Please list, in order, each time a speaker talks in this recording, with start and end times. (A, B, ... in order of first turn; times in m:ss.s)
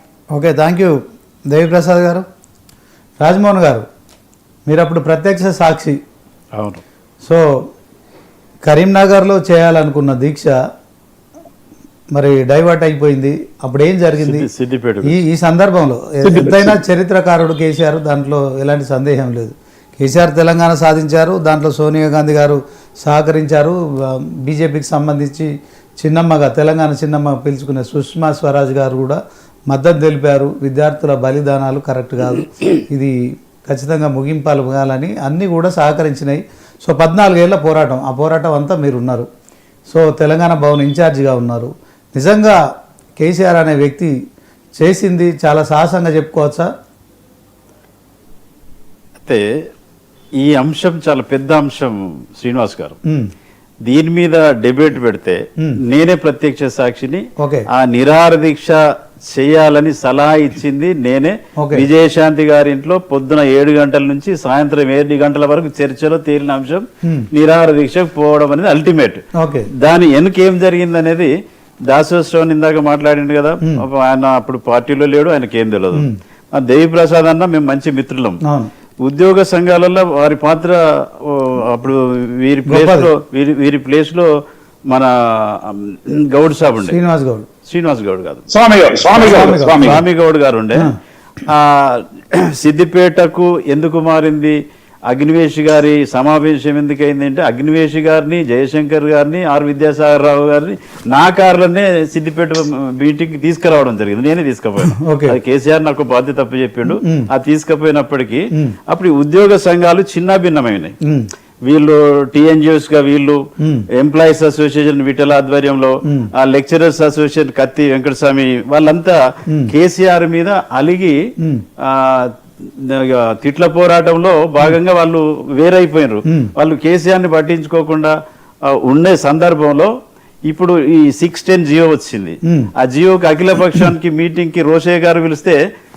0:00.3-0:01.0 A
0:01.5-0:02.2 A
0:03.2-0:03.8 A
0:04.7-0:06.0 A
0:06.5-0:06.8 B
0:07.2-0:07.7 A
0:08.6-0:10.5 A
0:12.1-0:14.5 A
0:14.2-0:15.2 B
0:15.0-0:25.5 A
0:16.2-0:16.8 C
0:26.0-0:29.2 A
0:29.7-0:33.1 A
0:33.6-0:39.2 A
0:39.9-0:42.6 A
0:43.2-0:44.1 A
0:44.8-0:46.7 A
0:49.2-0:49.5 B
0:50.4-0:53.0 B
0:53.8-1:09.2 B
0:57.4-0:57.6 A
1:01.6-1:01.9 A
1:09.4-1:09.7 A
1:09.8-1:11.3 B
1:11.9-1:18.4 B
1:18.4-1:18.7 A
1:19.0-1:24.3 B
1:22.7-1:23.1 A
1:24.9-1:27.0 B
1:26.8-1:27.5 A
1:27.6-1:28.4 B
1:28.5-1:30.0 C
1:29.1-1:29.9 A
1:29.2-1:30.9 B
1:31.5-1:50.9 B
1:45.0-1:45.4 A
1:46.8-1:47.2 A
1:51.6-2:01.2 B
1:53.6-1:53.8 A
2:01.8-2:08.1 B
2:06.2-2:06.5 A
2:08.7-2:09.9 B
2:10.5-2:15.6 B